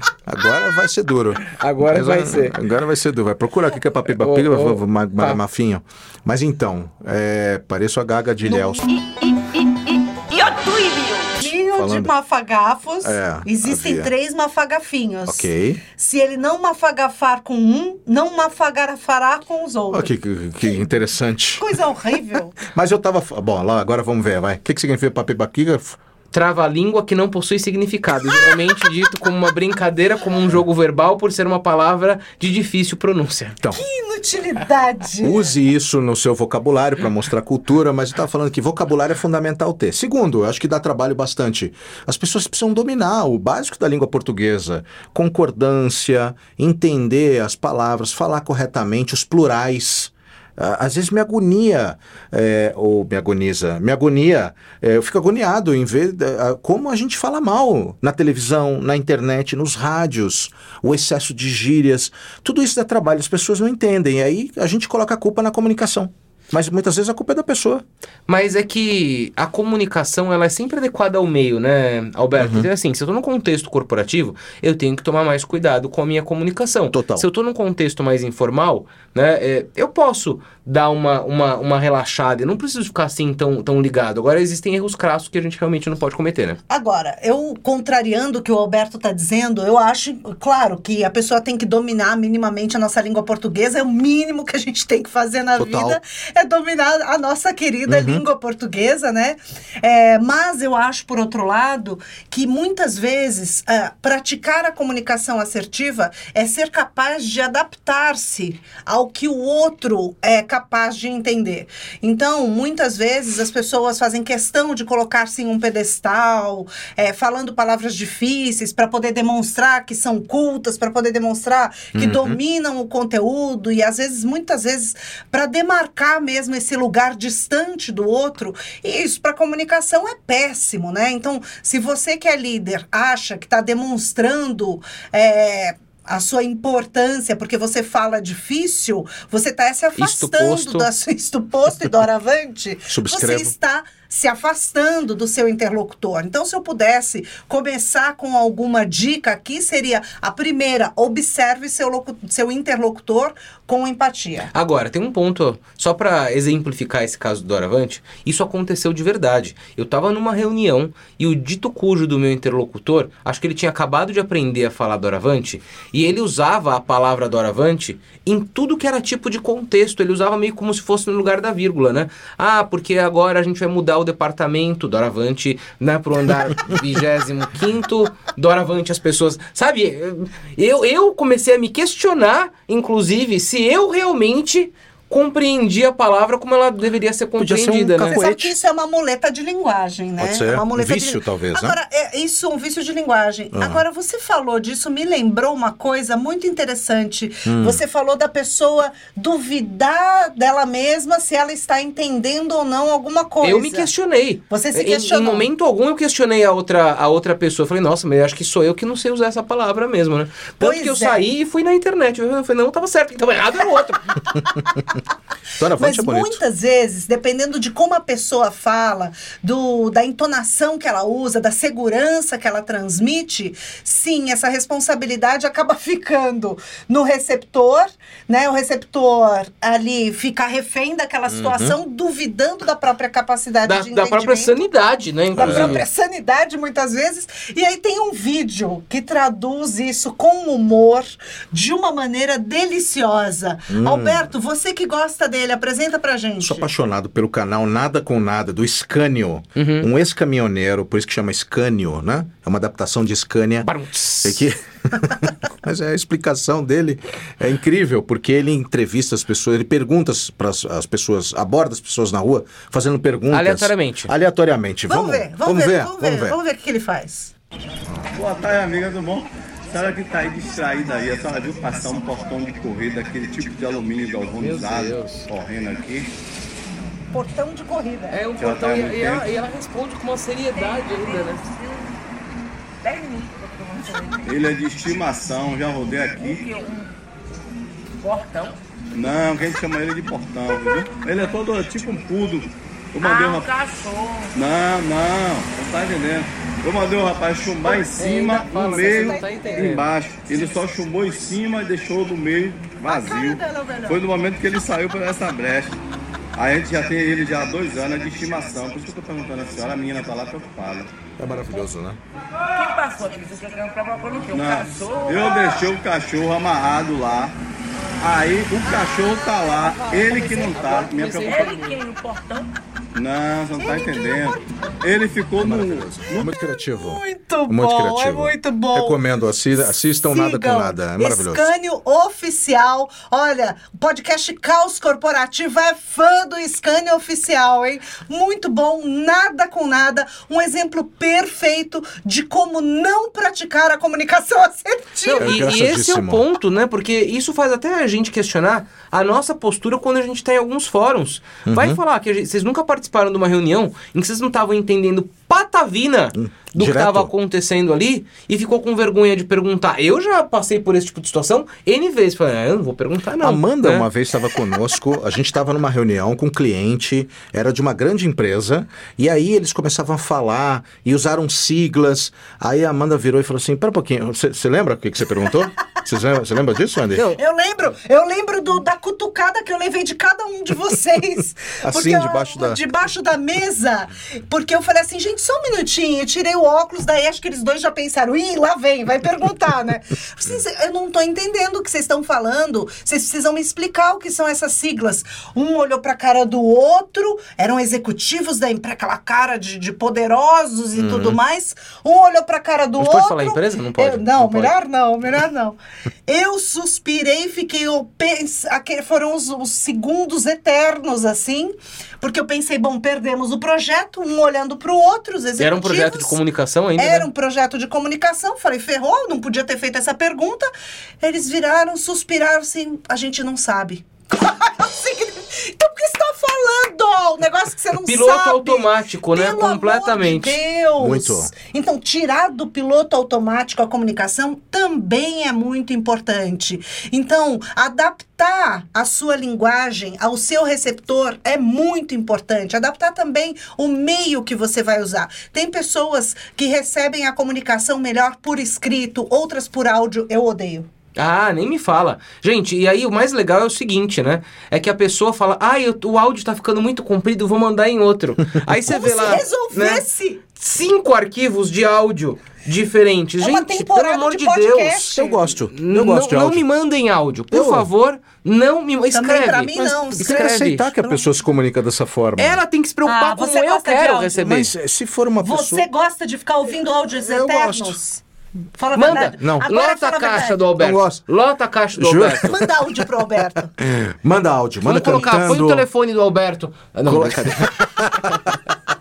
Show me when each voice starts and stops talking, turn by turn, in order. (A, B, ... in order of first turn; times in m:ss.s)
0:00.3-0:08.8 A
0:01.5-0:02.6 B
0:04.2-0:05.4 B
0:08.9-0:11.4 C
0:11.4-0:20.8 D
0:11.7-0:12.1 A
0:13.0-0:14.1 A
0:15.3-0:15.8 A
0:19.9-0:21.7 A
0:21.6-0:22.6 D
0:22.6-0:26.0 A
0:26.3-0:33.6 B
0:33.7-0:35.5 D
0:35.2-1:07.8 A
1:08.3-1:26.6 B
1:12.4-1:12.7 A
1:16.9-1:17.3 A
1:26.7-2:34.5 D
1:35.6-1:36.0 A
1:37.9-1:38.2 A
2:01.9-2:02.4 A
2:20.0-2:20.9 B
2:22.9-2:23.5 A
2:34.5-3:08.2 B
3:07.4-3:08.6 A
3:08.1-3:23.9 D
3:10.2-3:11.8 A
3:13.5-3:13.8 A
3:17.4-3:17.8 A
3:23.4-3:34.1 B
3:24.5-3:25.5 D
3:30.6-3:31.3 D
3:35.6-3:36.4 A
3:35.8-3:54.6 D
3:51.3-3:51.8 A
3:53.6-3:55.8 B
3:55.4-4:06.7 D
3:55.4-3:55.8 A
4:03.7-4:04.3 A
4:06.4-4:13.7 A
4:09.6-4:09.9 B
4:13.6-4:14.5 B
4:14.2-4:26.4 A
4:23.3-4:24.1 B
4:24.9-4:27.3 D
4:28.1-4:36.1 E
4:34.4-4:35.3 B
4:37.1-4:38.2 D
4:38.1-4:41.4 B
4:38.4-4:39.3 E
4:40.6-4:42.0 C
4:42.8-4:44.4 C
4:44.2-4:46.5 E
4:46.2-4:47.0 C
4:48.0-4:48.6 C
4:48.9-4:53.5 E
4:53.0-4:54.3 C
4:54.3-5:05.8 E
4:57.6-4:59.8 D
4:58.0-4:59.9 B
5:02.9-5:04.0 D
5:06.4-5:10.9 E
5:11.2-5:12.0 A
5:12.5-5:15.6 C
5:14.3-5:17.4 E
5:18.0-5:21.6 E
5:19.5-5:20.6 D
5:20.5-5:21.8 B
5:21.2-5:22.5 C
5:22.9-5:26.3 E
5:25.4-5:31.5 A
5:26.2-5:29.0 D
5:30.0-5:45.4 D
5:45.0-6:03.9 B
5:45.2-5:46.2 A
5:51.5-5:51.8 A
5:56.2-5:57.1 A
6:03.2-6:17.2 A
6:17.1-6:56.2 D
6:21.6-6:22.6 A
6:40.8-6:41.2 A
6:42.8-6:44.6 B
6:55.4-6:57.1 B
6:56.8-7:30.7 D
7:07.8-7:10.4 B
7:10.8-7:11.3 A
7:31.0-7:44.9 B
7:38.7-7:40.2 D
7:43.2-7:45.3 D
7:44.8-7:46.4 A
7:45.5-7:50.7 B
7:47.3-7:47.7 A
7:48.9-7:51.0 D
7:49.8-7:52.4 A
7:52.2-7:54.5 B
7:52.8-7:54.4 D
7:54.2-7:55.7 A
7:55.2-7:58.0 D
7:56.9-7:57.8 A
7:58.6-8:00.4 D
7:58.7-8:02.4 B
7:59.2-7:59.5 A
8:00.6-8:01.0 A
8:01.8-8:02.5 A
8:02.2-8:03.5 D
8:03.6-8:05.7 A
8:04.6-8:08.1 B
8:06.9-8:08.4 A